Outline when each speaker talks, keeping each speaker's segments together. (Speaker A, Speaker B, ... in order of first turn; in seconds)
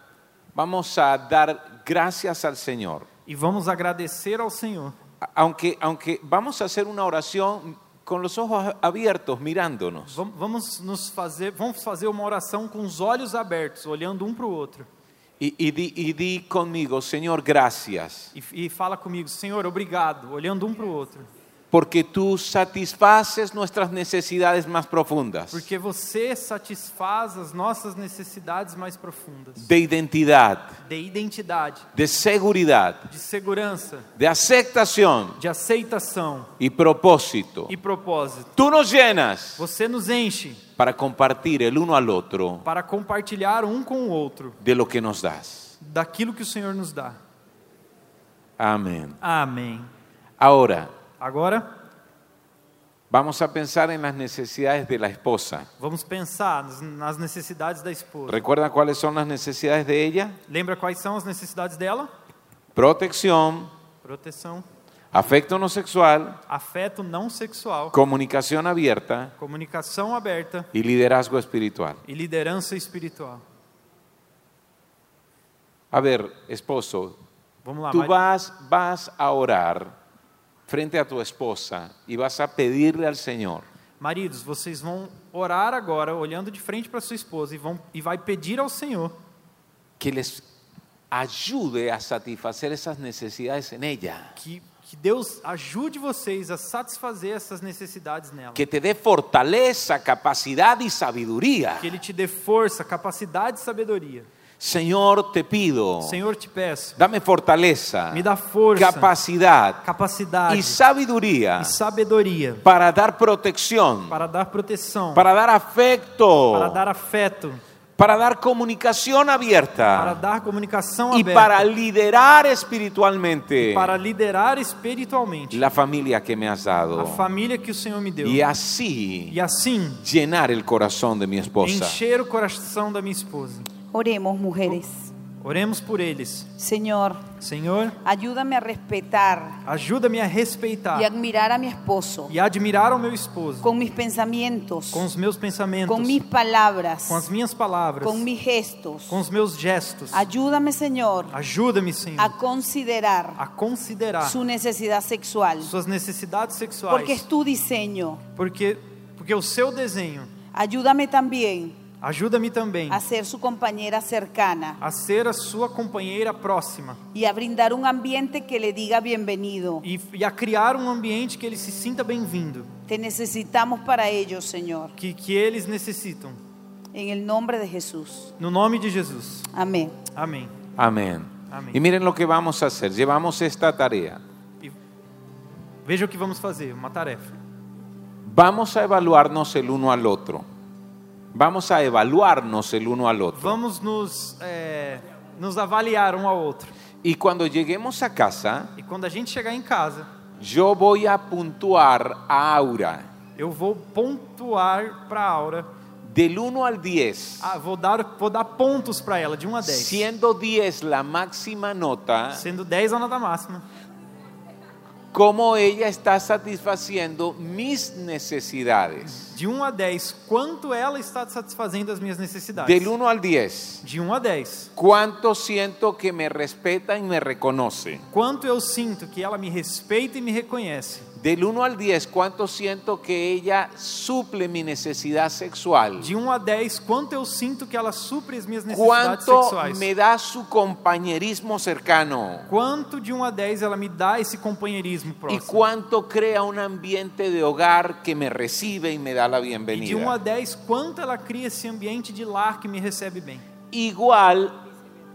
Speaker A: 0.5-3.1, 5.2-10.2, 15.4-18.3, 21.7-25.6, 29.6-30.8, 31.9-33.1, 34.2-35.4, 36.6-37.7, 38.6-39.6, 40.8-42.6, 44.6-45.8, 48.6-49.2, 50.4-50.9, 53.1-55.7, 58.3-60.4, 62.7-63.7, 65.1-66.4, 67.9-69.3, 70.7-72.0, 75.9-77.2, 77.9-79.9, 80.7-83.6, 90.0-90.4, 91.1-94.3, 98.5-101.9, 104.6-106.2, 107.0-109.8, 110.5-111.7, 112.6-114.2, 115.1-116.8, 118.0-120.2, 121.1-124.0, 125.5-127.3, 128.2-129.4, 130.0-132.0, 180.8-184.2, 188.2-190.4, 191.3-193.6, 197.0-198.7, 200.4-203.1, 206.0-207.5, 209.7-212.4, 215.1-219.3, 222.6-223.8, 224.8-228.0, 231.2-236.1, 238.7-242.5, 245.3-250.2, 253.7-254.6
Speaker B: 3.2-5.0, 10.1-14.9, 18.3-21.3, 25.5-29.7, 30.8-31.9, 33.1-34.1, 35.4-36.5, 37.7-38.5, 39.6-40.6, 42.6-44.6, 45.8-47.2, 49.2-49.9, 51.2-51.6, 55.8-58.4, 60.5-62.1, 64.0-64.7, 66.5-68.0, 69.4-70.7, 72.0-73.4, 77.6-78.2, 84.0-89.1, 94.4-98.6, 101.8-104.3, 106.0-107.0, 108.1-109.1, 109.8-110.8, 111.6-112.6, 114.1-115.2, 116.5-117.6, 120.0-121.7, 123.6-125.7, 126.9-128.4, 129.3-130.0, 131.6-133.7, 135.4-136.5, 137.4-138.0, 139.7-141.1, 142.3-143.7, 144.9-146.2, 147.1-148.2, 149.1-150.3, 151.3-152.3, 153.4-154.4, 155.6-157.2, 158.3-160.3, 162.0-163.0, 164.8-167.0, 169.8-172.7, 175.0-176.4, 178.4-179.5, 180.1-180.5, 181.5-181.8, 185.8-187.3, 193.3-196.7, 198.8-200.1, 203.3-205.7, 207.4-210.1, 212.3-213.6, 219.2-222.9, 223.8-224.7, 228.1-231.1, 236.0-239.9, 242.5-245.6, 249.7-253.4
Speaker C: 133.9-135.1, 136.6-137.3, 138.0-139.6, 140.9-142.3, 143.6-145.1, 145.9-147.2, 148.0-149.2, 150.1-151.3, 152.2-153.4, 154.2-155.7, 156.9-158.2, 160.5-161.8, 162.9-164.8, 167.1-169.8, 172.9-174.9, 176.9-178.3, 179.5-180.0